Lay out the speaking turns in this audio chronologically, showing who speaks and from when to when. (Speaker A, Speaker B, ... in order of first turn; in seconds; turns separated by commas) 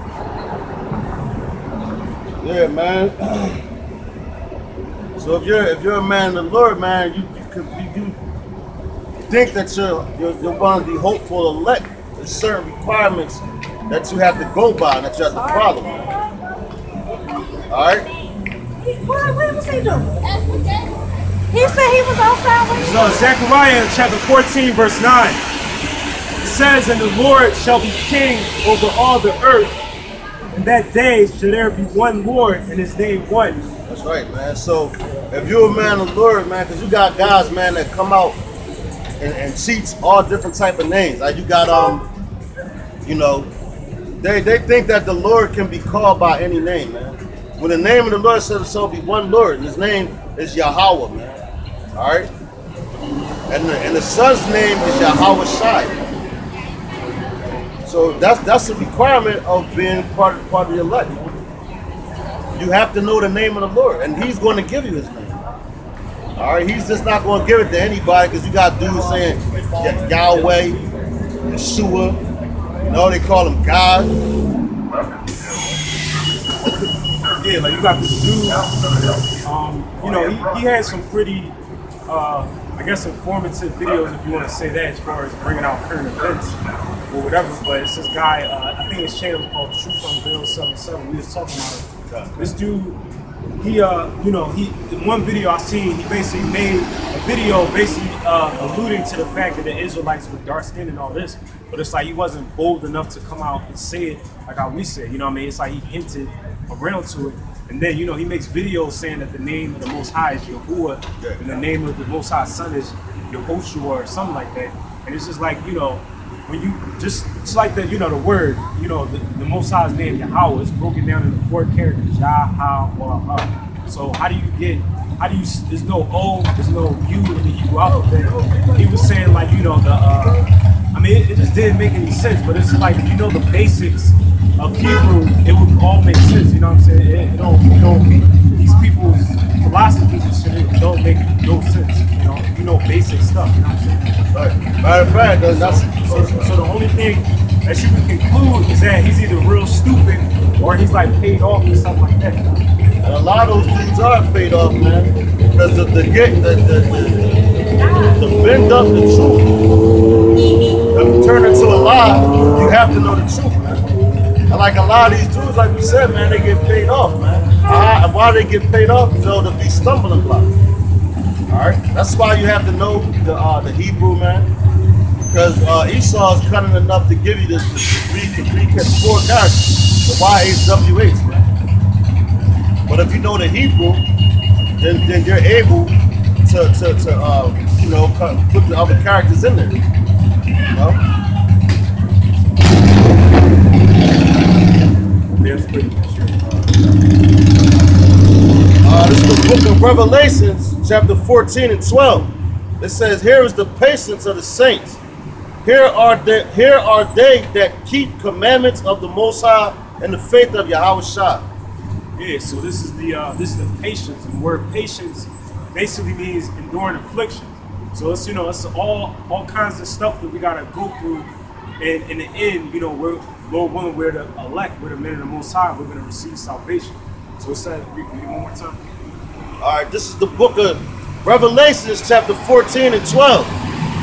Speaker A: 2.4-3.6, Speaker A: 5.2-8.2, Speaker A: 9.2-16.1, Speaker B: 15.5-15.8, Speaker A: 17.7-18.1, Speaker B: 18.8-20.9, Speaker B: 21.5-23.1, Speaker C: 22.8-25.4, Speaker C: 26.4-29.9, Speaker C: 30.5-33.6, Speaker A: 33.9-38.4, Speaker A: 39.2-42.1, Speaker A: 43.0-43.5, Speaker A: 44.2-51.4, Speaker A: 52.0-52.3, Speaker A: 53.5-56.0, Speaker A: 57.9-61.4, Speaker A: 62.5-65.4, Speaker A: 66.4-70.8, Speaker A: 71.5-72.2, Speaker A: 72.9-74.1, Speaker C: 77.3-78.6, Speaker C: 79.4-81.6, Speaker C: 82.1-86.6, Speaker C: 87.1-93.0, Speaker A: 92.1-92.5, Speaker C: 93.6-144.2, Speaker A: 144.3-146.6, Speaker C: 145.2-152.7, Speaker A: 153.0-159.5, Speaker A: 160.9-163.8, Speaker A: 164.5-170.5, Speaker A: 171.5-174.5, Speaker A: 175.3-181.4, Speaker A: 182.9-184.1, Speaker A: 184.8-189.8, Speaker A: 190.7-191.0, Speaker C: 195.3-196.8, Speaker A: 198.8-205.0, Speaker A: 205.6-211.5, Speaker C: 212.2-228.8, Speaker A: 229.6-233.6